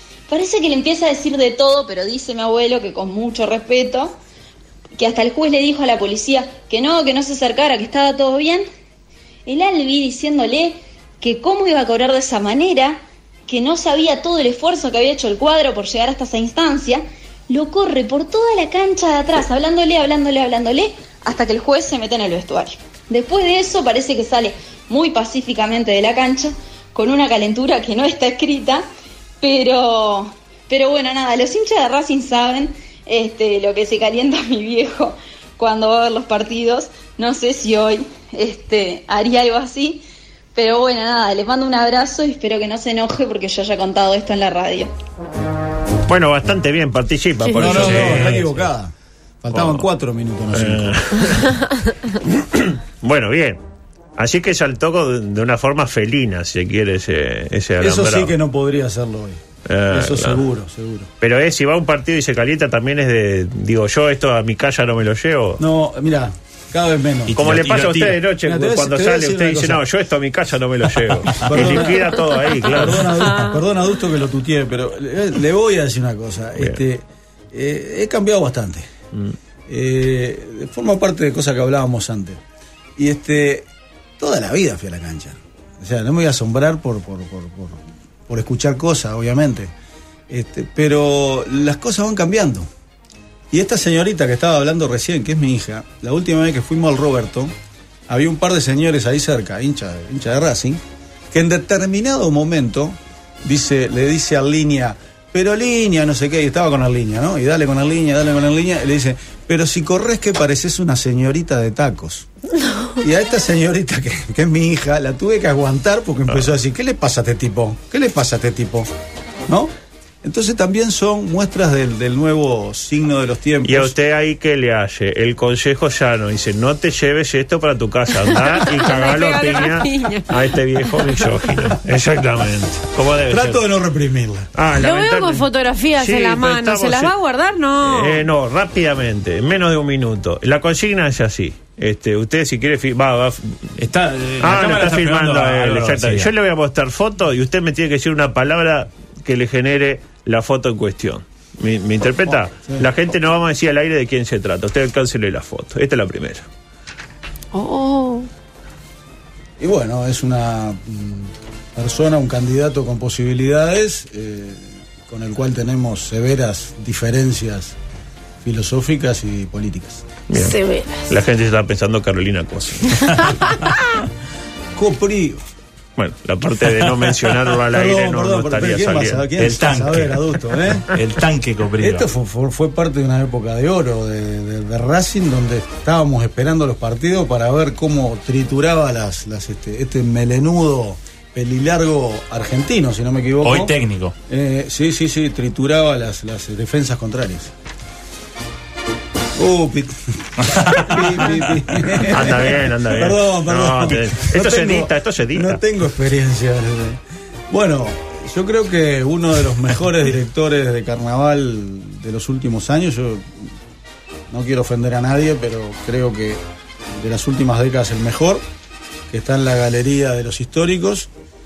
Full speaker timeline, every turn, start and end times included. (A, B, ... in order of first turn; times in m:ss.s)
0:00.3-0:04.2 A
0:05.0-0:08.6 A
0:09.4-0:28.8 A
0:29.4-0:40.0 A
0:40.5-0:44.9 A
0:46.1-0:48.4 B
0:47.4-0:47.8 C
0:47.6-0:51.0 D
0:47.6-0:48.5 E
0:49.5-0:49.9 B
0:50.5-0:51.6 B
0:52.2-0:53.6 B
0:54.2-0:58.3 B
0:57.8-1:01.1 D
0:59.6-1:00.4 B
1:01.2-1:05.6 B
1:05.6-1:07.4 D
1:07.3-1:08.2 E
1:07.3-1:13.3 B
1:08.4-1:09.8 D
1:11.4-1:18.9 D
1:19.7-1:22.4 D
1:23.0-1:23.7 D
1:24.2-1:29.7 D
1:30.3-1:32.7 D
1:33.5-1:37.5 D
1:38.1-1:52.3 D
1:53.0-1:58.9 D
1:59.5-2:03.9 D
2:03.6-2:13.6 B
2:08.3-2:11.5 C
2:13.3-2:14.5 D
2:14.5-2:17.1 B
2:14.8-2:18.2 C
2:17.8-2:23.8 B
2:23.8-2:26.3 E
2:24.4-2:36.4 B
2:32.3-2:32.8 D
2:37.5-2:38.3 C
2:39.6-2:47.8 D
2:48.4-2:50.1 D
2:50.3-2:53.3 B
2:50.3-2:51.1 C
2:54.7-2:55.4 D
2:56.0-2:59.6 B
2:57.7-3:00.9 D
2:59.4-3:00.2 E
3:00.7-3:02.1 E
3:01.8-3:13.8 D
3:13.4-3:14.1 E
3:14.3-3:17.5 D
3:19.4-3:33.5 D
3:20.5-3:21.0 E
3:22.1-3:25.6 B
3:34.3-3:38.4 D
3:39.1-3:41.1 D